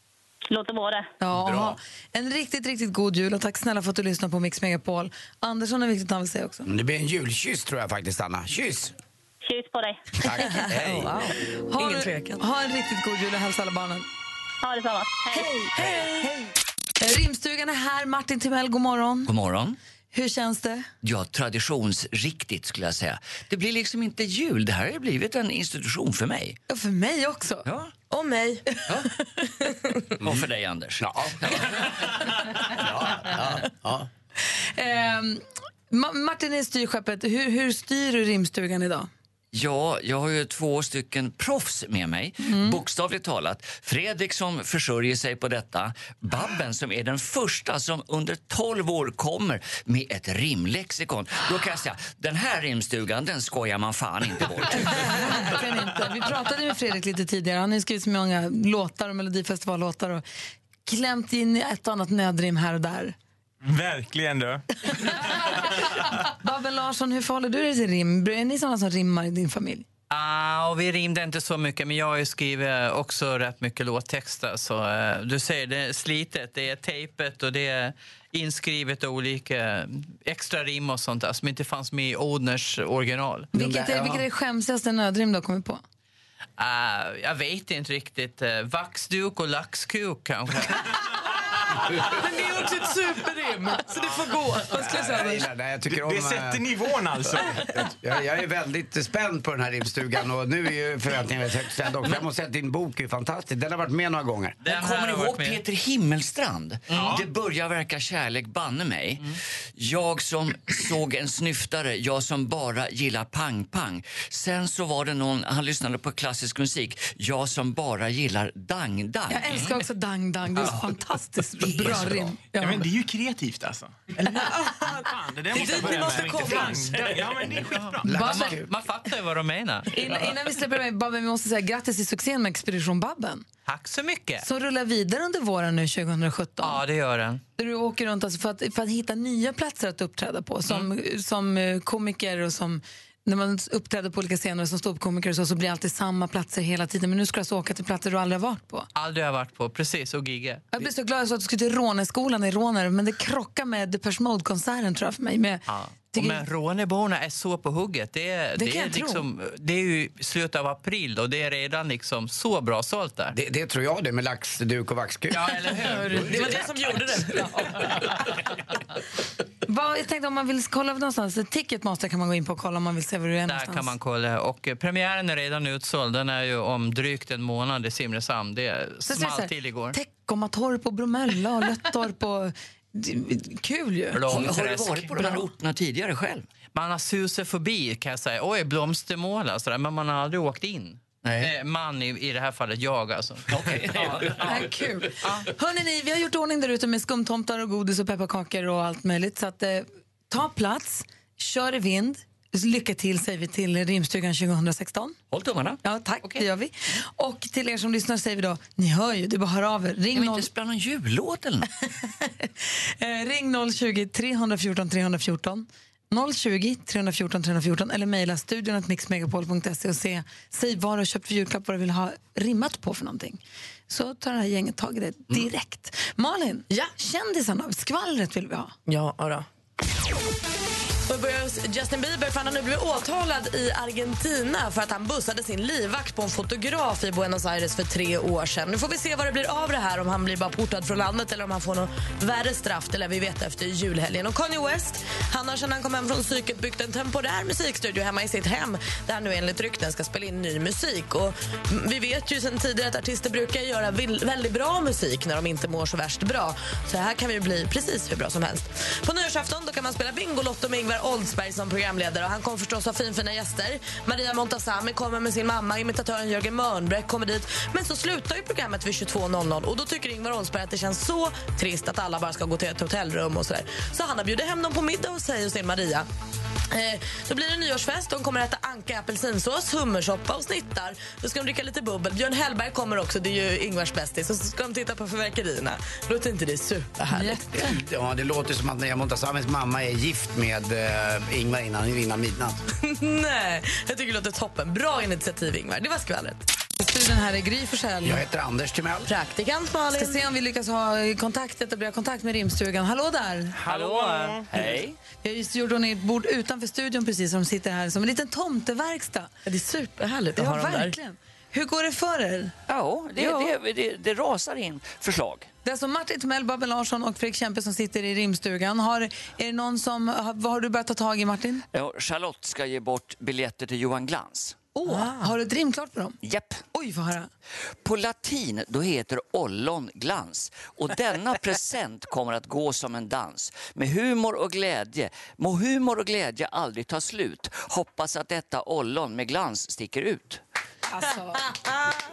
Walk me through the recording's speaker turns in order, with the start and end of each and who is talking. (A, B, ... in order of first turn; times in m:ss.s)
0:00.5-0:01.1 A
0:01.2-0:06.7 B
0:01.4-0:01.7 C
0:06.6-0:08.9 C
0:09.4-0:10.0 A
0:10.2-0:11.2 C
0:10.4-0:12.4 D
0:11.7-0:14.1 B
0:14.6-0:15.5 A
0:15.3-0:19.3 B
0:15.8-0:16.3 D
0:19.2-0:19.8 E
0:20.1-0:20.9 B
0:21.0-0:26.6 E
0:26.7-0:27.7 B
0:27.6-0:27.9 E
0:28.1-0:28.8 D
0:29.4-0:30.1 D
0:30.2-0:30.4 C
0:30.2-0:32.3 E
0:31.0-0:34.1 C
0:34.6-0:39.1 B
0:39.5-0:55.5 E
0:42.4-0:42.8 B
0:54.7-1:00.2 B
1:00.8-1:03.2 B
1:03.6-1:05.4 F
1:04.9-1:09.8 B
1:10.1-1:23.5 G
1:23.5-1:24.2 C
1:23.5-1:25.8 B
1:26.6-1:31.1 G
1:31.9-1:35.5 D
1:34.7-1:36.7 C
1:35.9-1:37.6 F
1:37.2-1:44.6 C
1:44.6-1:45.6 G
1:44.6-1:59.7 E
1:46.9-1:47.2 G
1:46.9-1:47.3 F
1:59.3-2:02.8 B
2:01.8-2:08.3 F
2:04.3-2:04.9 D
2:05.5-2:07.3 D
2:06.3-2:07.0 C
2:07.5-2:08.7 C
2:08.1-2:09.9 G
2:08.1-2:08.5 B
2:09.9-2:13.4 B
2:13.6-2:14.4 G
2:14.4-2:16.8 B
2:16.6-2:17.4 G
2:17.6-2:28.9 B
2:29.0-2:30.7 G
2:30.7-2:36.4 B
2:35.7-2:43.3 G
2:38.6-2:39.1 D
2:43.3-2:46.7 C
2:45.4-2:46.3 G
2:45.7-2:48.1 D
2:49.6-2:53.9 B
2:53.5-3:00.0 G
2:59.1-3:04.4 B
3:04.1-3:06.5 E
3:04.3-3:04.8 G
3:05.2-3:05.4 B
3:06.7-3:14.4 G
3:11.2-3:11.5 E
3:13.5-3:14.6 E
3:14.4-3:25.2 B
3:25.3-3:25.8 E
3:25.8-3:30.5 B
3:30.1-3:31.7 E
3:32.0-3:48.7 B
3:48.9-3:49.5 D
3:51.1-4:36.1 D
4:36.7-4:47.6 D
4:47.1-4:47.7 B
4:47.6-4:52.6 C
4:52.8-4:56.4 D
4:56.8-4:58.2 B
4:58.0-4:59.1 C
4:59.1-5:00.2 D
5:00.0-5:03.6 B
5:03.5-5:04.8 F
5:03.6-5:04.4 G
5:04.5-5:05.0 E
5:05.2-5:09.3 B
5:09.5-5:10.9 D
5:10.4-5:12.5 B
5:12.7-5:15.5 E
5:13.2-5:13.5 B
5:15.6-5:21.6 B
5:21.7-5:24.7 E
5:24.8-5:26.2 B
5:24.9-5:25.2 D
5:26.2-5:26.6 E
5:26.7-5:27.3 B
5:27.8-5:40.4 E
5:40.8-5:41.6 B